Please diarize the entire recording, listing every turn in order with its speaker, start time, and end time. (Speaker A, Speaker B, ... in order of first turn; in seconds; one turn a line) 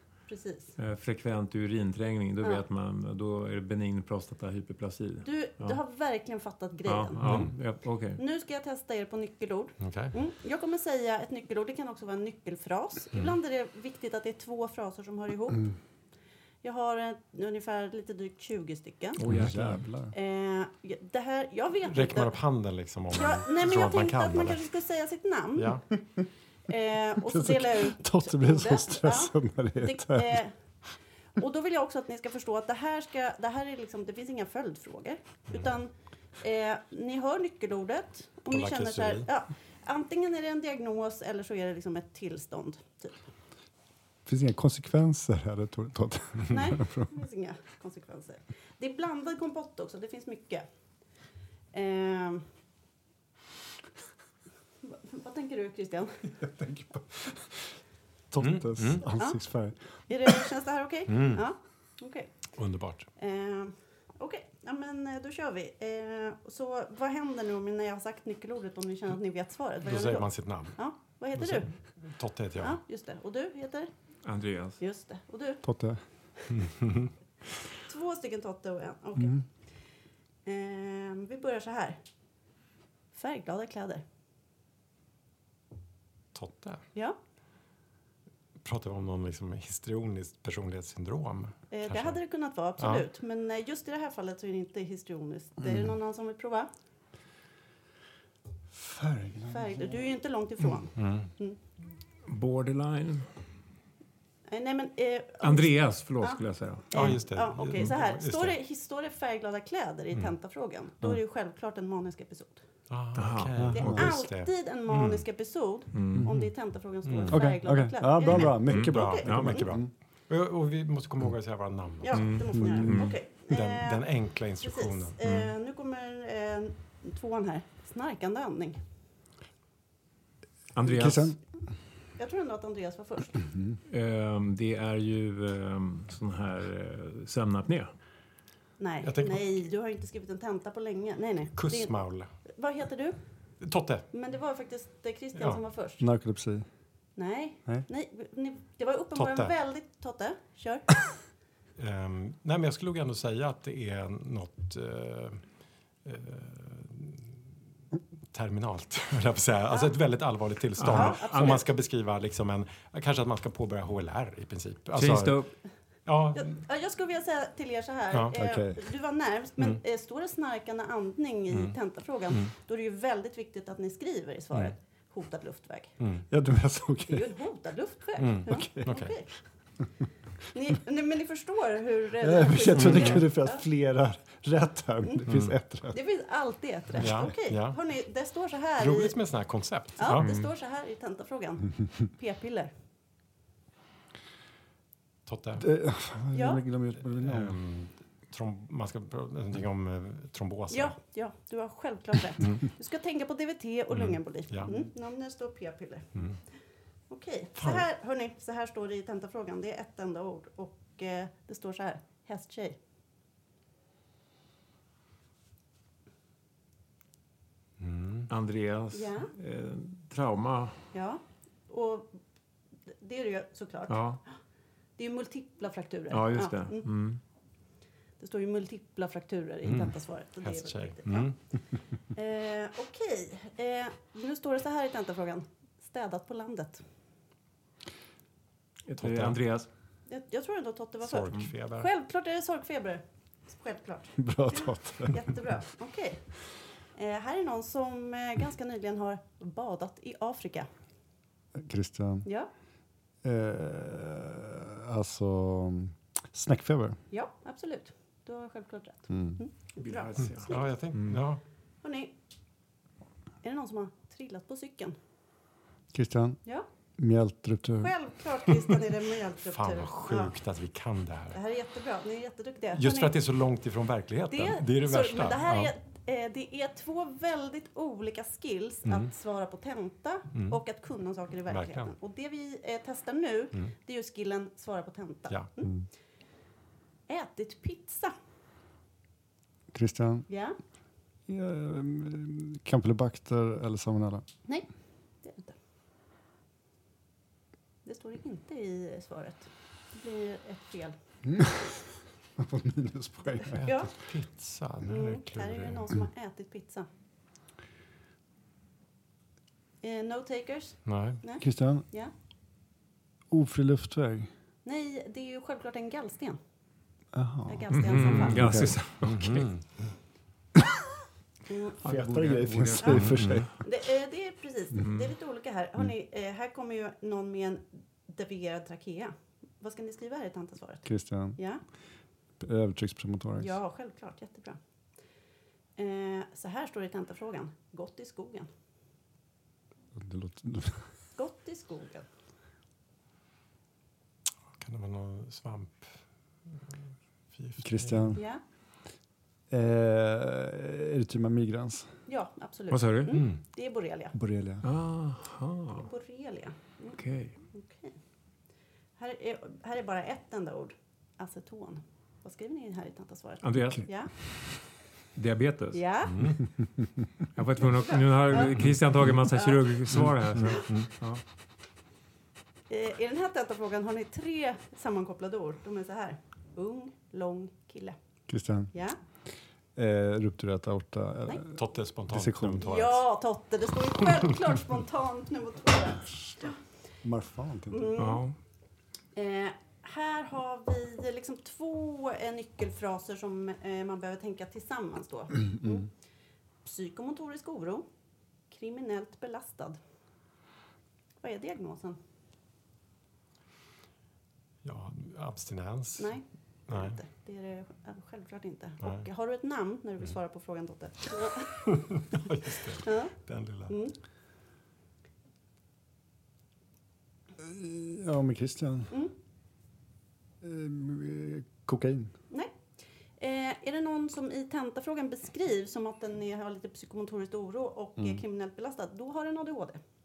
Speaker A: 0.3-0.7
Speaker B: 0.8-5.8
Speaker A: 5.2-15.8
Speaker B: 6.8-8.2
Speaker C: 7.2-7.5
Speaker C: 9.8-10.1
Speaker A: 16.6-19.2
Speaker B: 19.2-19.9
Speaker D: 19.3-20.1
Speaker A: 20.1-22.5
Speaker C: 21.9-24.6
Speaker A: 23.1-26.1
Speaker C: 25.6-25.8
Speaker A: 26.7-30.5
Speaker D: 27.2-30.4
Speaker A: 31.4-43.2
Speaker C: 38.5-39.3
Speaker D: 44.2-47.1
Speaker A: 46.5-50.6
Speaker A: 51.7-52.4
Speaker A: 54.8-56.4
Speaker D: 56.4-57.8
Speaker D: 58.3-60.4
Speaker C: 58.4-59.0
Speaker A: 60.1-62.5
Speaker C: 61.1-61.4
Speaker C: 62.6-63.1
Speaker A: 63.1-71.9
Speaker C: 69.8-72.8
Speaker A: 72.6-73.9
Speaker B: 74.2-74.8
Speaker A: 74.8-75.7
Speaker D: 75.6-76.0
Speaker C: 76.6-77.1
Speaker A: 77.8-79.5
Speaker D: 79.2-79.4
Speaker A: 80.4-82.0
Speaker A: 83.1-84.0
Speaker C: 86.3-86.8
Speaker C: 88.6-92.2
Speaker A: 91.7-96.7
Speaker C: 92.8-93.0
Speaker D: 95.6-95.9
Speaker D: 98.7-99.9
Speaker A: 99.5-101.6
Speaker C: 100.9-101.3
Speaker B: 102.2-103.3
Speaker A: 104.5-112.7
Speaker B: 105.4-107.2
Speaker C: 106.9-108.5
Speaker C: 112.9-115.2
Speaker B: 113.2-113.9
Speaker D: 113.6-114.1
Speaker A: 113.7-119.7
Speaker B: 115.9-116.3
Speaker D: 116.1-116.5
Speaker C: 117.0-117.5
Speaker D: 117.3-119.9
Speaker C: 118.2-125.2
Speaker B: 118.7-119.6
Speaker A: 122.0-128.8
Speaker B: 122.1-123.2
Speaker D: 122.5-123.1
Speaker B: 125.2-125.5
Speaker B: 130.7-131.3
Speaker D: 130.8-131.5
Speaker A: 132.2-133.5
Speaker B: 133.9-137.9
Speaker A: 138.8-146.1
Speaker C: 139.0-139.6
Speaker C: 141.5-142.3
Speaker C: 143.6-144.1
Speaker C: 145.3-145.6
Speaker D: 146.0-146.7
Speaker A: 147.2-151.2
Speaker C: 149.1-149.5
Speaker C: 151.8-157.2
Speaker C: 158.3-166.6
Speaker A: 159.7-159.9
Speaker B: 160.8-161.6
Speaker A: 160.9-161.7
Speaker B: 164.9-165.6
Speaker A: 166.3-176.0
Speaker D: 168.3-168.8
Speaker C: 171.5-171.8
Speaker C: 176.0-176.2
Speaker D: 176.3-177.3
Speaker A: 177.1-179.5
Speaker C: 178.2-179.3
Speaker D: 178.4-178.9
Speaker A: 180.5-183.6
Speaker D: 182.2-186.0
Speaker C: 182.7-183.2
Speaker C: 185.3-185.6
Speaker A: 185.9-189.1
Speaker C: 186.9-187.8
Speaker C: 188.8-190.3
Speaker A: 190.0-192.7
Speaker B: 190.1-190.5
Speaker C: 195.2-195.7
Speaker D: 195.6-197.6
Speaker A: 196.3-196.6
Speaker C: 197.0-201.1
Speaker A: 200.7-206.6
Speaker C: 202.4-202.6
Speaker C: 203.9-204.8
Speaker C: 206.1-206.4
Speaker A: 207.1-212.8
Speaker C: 207.6-207.8
Speaker C: 217.8-218.3
Speaker B: 218.3-220.8
Speaker A: 218.9-219.3
Speaker A: 220.9-222.2
Speaker A: 223.0-224.4
Speaker B: 223.9-224.2
Speaker A: 224.9-227.1
Speaker B: 226.1-227.2
Speaker A: 228.2-236.8
Speaker C: 229.6-231.5
Speaker B: 238.9-239.7
Speaker C: 239.0-239.4
Speaker A: 240.1-250.7
Speaker C: 241.0-241.9
Speaker D: 244.2-245.2
Speaker D: 251.5-252.3
Speaker D: 253.2-257.0
Speaker A: 257.1-260.8
Speaker D: 259.1-259.4
Speaker B: 259.8-261.2
Speaker C: 260.2-261.4
Speaker A: 261.8-262.1
Speaker A: 263.4-264.9
Speaker D: 265.9-266.4
Speaker D: 267.0-267.9
Speaker A: 267.8-270.3
Speaker C: 269.4-271.4
Speaker A: 271.3-273.1
Speaker C: 272.7-275.7
Speaker A: 274.3-285.9
Speaker C: 278.8-279.1
Speaker C: 280.3-280.6
Speaker C: 281.5-281.9
Speaker A: 287.1-288.1
Speaker D: 289.7-290.3
Speaker A: 290.3-290.6
Speaker D: 291.3-294.2
Speaker A: 295.2-295.5
Speaker A: 297.8-300.9
Speaker D: 301.2-301.7
Speaker D: 302.4-303.7
Speaker A: 303.4-303.9
Speaker C: 303.9-306.0
Speaker A: 304.8-306.9
Speaker A: 309.8-312.1
Speaker C: 310.9-311.2
Speaker D: 311.4-311.9
Speaker D: 313.3-314.3
Speaker A: 314.6-316.4
Speaker D: 317.1-318.8
Speaker A: 317.4-318.7
Speaker B: 317.7-319.6
Speaker C: 318.0-318.4
Speaker C: 319.0-319.9
Speaker A: 321.5-321.8
Speaker B: 321.8-323.5
Speaker D: 321.8-323.6
Speaker A: 323.6-331.6
Speaker B: 324.8-325.1
Speaker D: 330.8-331.4
Speaker D: 332.4-333.6
Speaker A: 333.4-334.6
Speaker A: 335.8-338.5
Speaker D: 339.9-340.9
Speaker A: 341.1-342.1
Speaker C: 344.6-346.7
Speaker C: 347.3-348.1
Speaker D: 347.6-348.2
Speaker A: 348.1-348.4
Speaker D: 349.5-351.9
Speaker A: 352.1-354.2
Speaker B: 352.7-353.2
Speaker C: 353.1-353.4
Speaker D: 354.1-354.6
Speaker B: 354.6-355.9
Speaker A: 355.7-357.9
Speaker B: 356.9-357.4
Speaker A: 358.9-364.7
Speaker B: 363.4-364.4
Speaker B: 365.1-365.8
Speaker A: 365.7-366.5
Speaker C: 366.1-366.4
Speaker B: 367.3-371.2
Speaker A: 367.6-368.6
Speaker A: 369.3-369.6
Speaker A: 372.7-378.0
Speaker D: 378.3-378.7
Speaker A: 378.7-379.0
Speaker D: 379.7-382.6
Speaker C: 381.5-383.2
Speaker A: 382.6-386.6
Speaker D: 387.0-387.9
Speaker A: 387.7-388.3
Speaker B: 388.0-388.4
Speaker A: 389.1-396.0
Speaker A: 396.6-397.9
Speaker A: 398.4-399.8
Speaker A: 401.2-402.0
Speaker C: 404.6-407.0
Speaker A: 406.0-412.0
Speaker C: 408.8-409.1
Speaker C: 412.1-413.7
Speaker A: 412.8-414.0
Speaker D: 417.4-418.9
Speaker D: 420.4-422.1
Speaker A: 422.3-422.5
Speaker A: 423.2-429.8